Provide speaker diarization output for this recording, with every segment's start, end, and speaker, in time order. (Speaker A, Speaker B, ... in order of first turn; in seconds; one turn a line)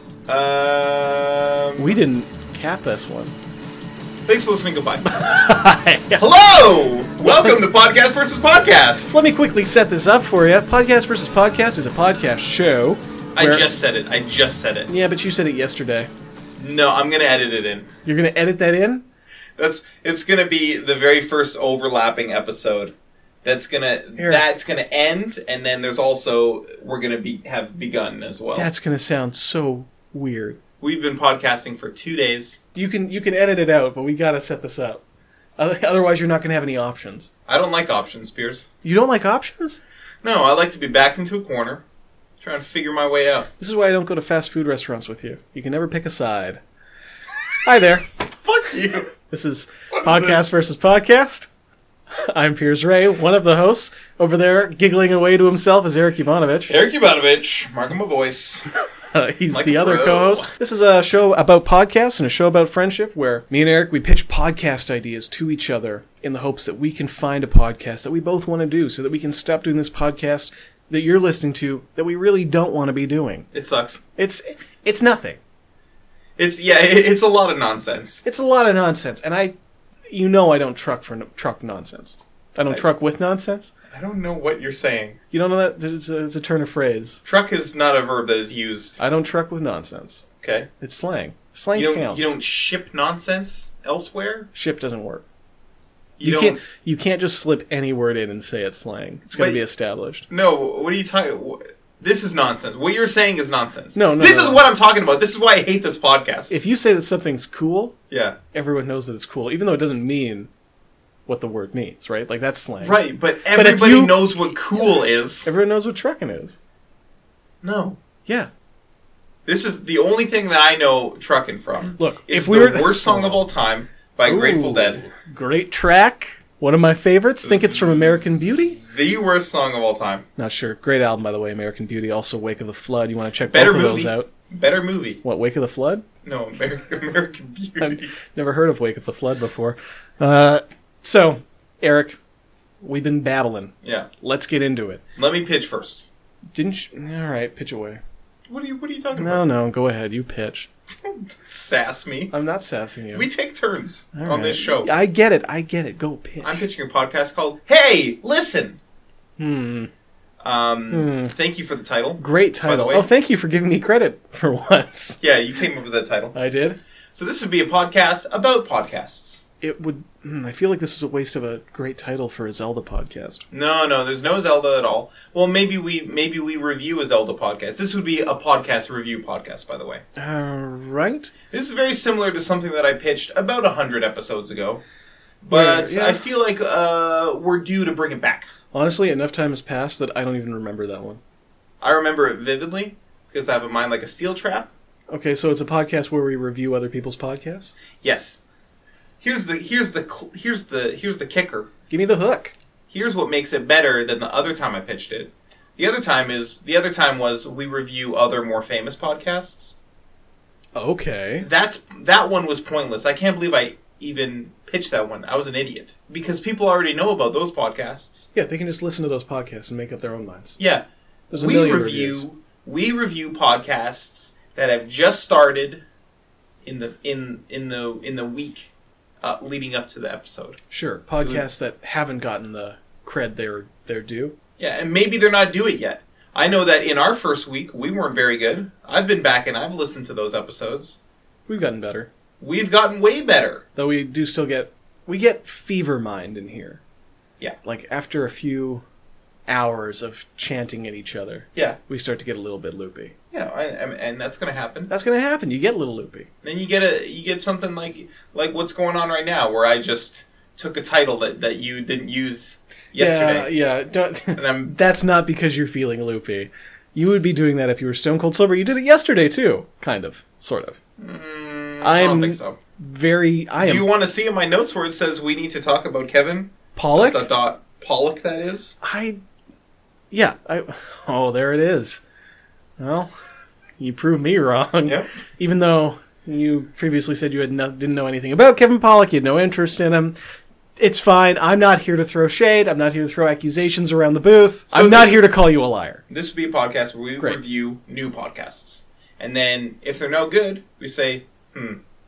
Speaker A: 0.3-2.0
Speaker B: 1.8-3.3
Speaker A: 4.3-5.1
Speaker B: 5.0-6.2
Speaker A: 6.2-9.1
Speaker B: 7.2-7.8
Speaker B: 9.0-13.7
Speaker A: 13.4-14.9
Speaker B: 14.9-16.1
Speaker A: 16.6-17.9
Speaker B: 18.1-19.1
Speaker A: 19.6-28.7
Speaker B: 24.2-24.5
Speaker B: 28.5-30.6
Speaker A: 30.8-32.6
Speaker B: 32.7-35.0
Speaker B: 35.6-37.3
Speaker A: 37.5-38.7
Speaker B: 38.8-39.8
Speaker A: 40.2-41.8
Speaker A: 42.4-43.5
Speaker B: 43.6-46.6
Speaker B: 47.6-48.0
Speaker A: 48.4-49.1
Speaker B: 49.3-51.5
Speaker A: 49.9-50.5
Speaker B: 52.3-56.8
Speaker A: 56.7-58.7
Speaker B: 59.1-73.5
Speaker A: 59.5-60.5
Speaker A: 73.5-74.0
Speaker B: 74.2-75.4
Speaker A: 76.4-78.2
Speaker B: 78.2-79.5
Speaker B: 80.1-83.7
Speaker A: 83.9-85.2
Speaker B: 85.3-87.2
Speaker A: 87.2-89.0
Speaker B: 89.0-90.2
Speaker A: 90.4-90.7
Speaker B: 90.8-92.4
Speaker A: 91.8-94.5
Speaker B: 94.5-95.2
Speaker A: 96.2-96.6
Speaker B: 96.2-100.3
Speaker A: 99.3-99.6
Speaker A: 100.3-106.5
Speaker B: 104.0-104.6
Speaker B: 106.5-108.0
Speaker A: 108.1-108.4
Speaker B: 108.5-110.5
Speaker B: 111.3-114.8
Speaker A: 112.8-115.5
Speaker B: 115.4-116.6
Speaker A: 117.6-118.0
Speaker A: 119.5-125.1
Speaker B: 122.0-123.5
Speaker B: 124.2-128.8
Speaker A: 127.4-127.8
Speaker A: 128.9-130.2
Speaker B: 130.4-134.3
Speaker A: 133.5-135.2
Speaker B: 135.2-136.0
Speaker A: 136.2-138.1
Speaker B: 137.8-142.2
Speaker B: 142.8-145.0
Speaker A: 143.8-144.1
Speaker A: 145.2-146.1
Speaker B: 146.6-148.0
Speaker A: 148.5-149.4
Speaker B: 149.2-150.7
Speaker A: 151.0-152.3
Speaker B: 152.3-153.3
Speaker A: 153.1-154.9
Speaker B: 154.2-156.7
Speaker A: 156.4-158.8
Speaker B: 159.4-159.9
Speaker A: 160.4-163.1
Speaker B: 160.9-161.3
Speaker B: 162.2-165.2
Speaker A: 165.2-166.3
Speaker B: 166.3-166.8
Speaker A: 167.1-169.4
Speaker B: 169.6-173.4
Speaker A: 173.5-180.0
Speaker B: 180.2-181.3
Speaker A: 181.5-184.8
Speaker A: 185.4-188.5
Speaker B: 185.5-186.2
Speaker B: 188.7-191.2
Speaker A: 191.8-194.7
Speaker B: 195.1-197.7
Speaker A: 198.0-198.4
Speaker A: 199.2-201.7
Speaker B: 201.9-202.5
Speaker A: 202.9-209.8
Speaker B: 210.8-211.5
Speaker A: 211.4-218.3
Speaker B: 218.3-220.6
Speaker A: 220.6-220.8
Speaker B: 221.3-222.2
Speaker A: 221.4-225.8
Speaker A: 226.6-230.6
Speaker B: 230.7-234.3
Speaker A: 234.6-241.0
Speaker B: 241.5-242.1
Speaker A: 242.4-243.6
Speaker B: 243.8-246.8
Speaker B: 247.6-248.8
Speaker B: 249.5-253.1
Speaker A: 253.3-254.9
Speaker B: 254.9-256.3
Speaker A: 256.4-263.5
Speaker B: 263.0-270.8
Speaker A: 264.4-264.7
Speaker A: 271.0-272.6
Speaker B: 271.8-273.9
Speaker A: 273.6-278.8
Speaker B: 276.8-277.3
Speaker B: 278.8-279.2
Speaker B: 280.1-282.0
Speaker B: 282.8-283.1
Speaker B: 283.8-290.2
Speaker A: 284.9-285.1
Speaker B: 290.8-296.0
Speaker A: 294.7-295.2
Speaker A: 296.1-301.8